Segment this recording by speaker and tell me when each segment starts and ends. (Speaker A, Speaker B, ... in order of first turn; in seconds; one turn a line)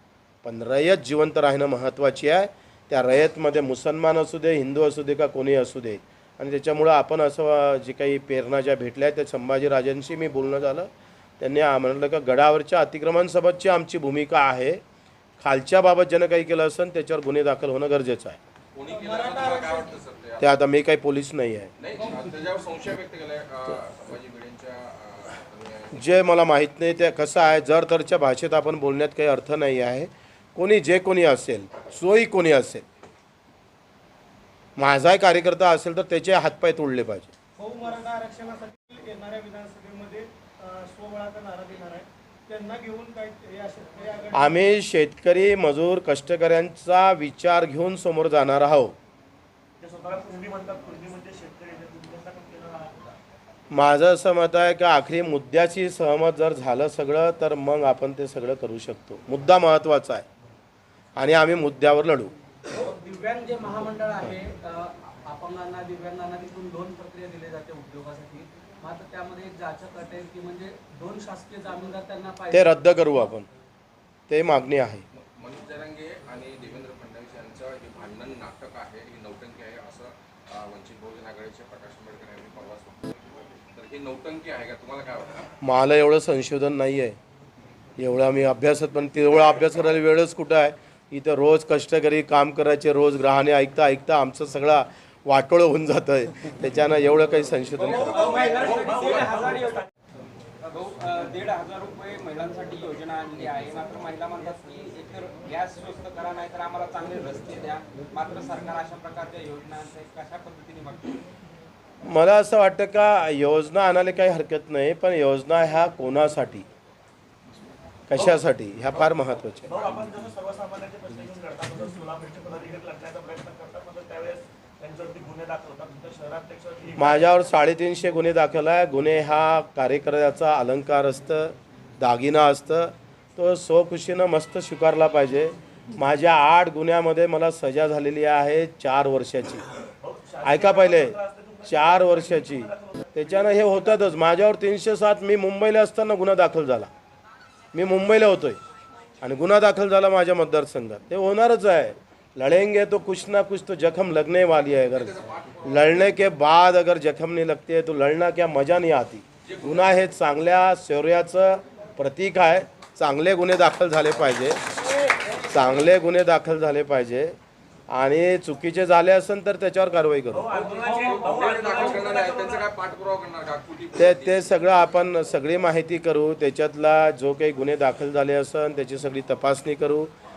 Speaker A: 0.4-10.9
Speaker A: 11.4-14.8
Speaker A: 15.4-18.4
Speaker B: 18.7-20.5
Speaker C: 18.9-19.9
Speaker A: 20.4-21.7
Speaker B: 21.8-26.2
Speaker A: 25.9-32.8
Speaker A: 34.8-37.3
Speaker C: 37.6-44.3
Speaker A: 44.3-48.9
Speaker D: 49.8-53.2
Speaker A: 53.7-60.2
Speaker A: 61.1-62.3
Speaker E: 62.7-72.9
Speaker A: 72.5-73.5
Speaker A: 74.3-75.0
Speaker B: 75.1-85.5
Speaker A: 85.6-87.2
Speaker A: 88.0-98.4
Speaker F: 97.8-99.9
Speaker D: 97.9-99.9
Speaker F: 100.6-111.2
Speaker A: 112.0-116.7
Speaker A: 118.1-119.8
Speaker D: 119.6-127.2
Speaker A: 127.0-139.7
Speaker D: 140.0-144.0
Speaker A: 140.4-141.1
Speaker A: 141.7-146.9
Speaker A: 147.7-148.6
Speaker A: 149.2-164.6
Speaker B: 154.9-155.9
Speaker B: 159.5-159.8
Speaker A: 165.4-167.3
Speaker A: 167.9-170.6
Speaker D: 170.3-172.7
Speaker F: 170.6-171.0
Speaker B: 170.8-174.6
Speaker A: 173.9-180.1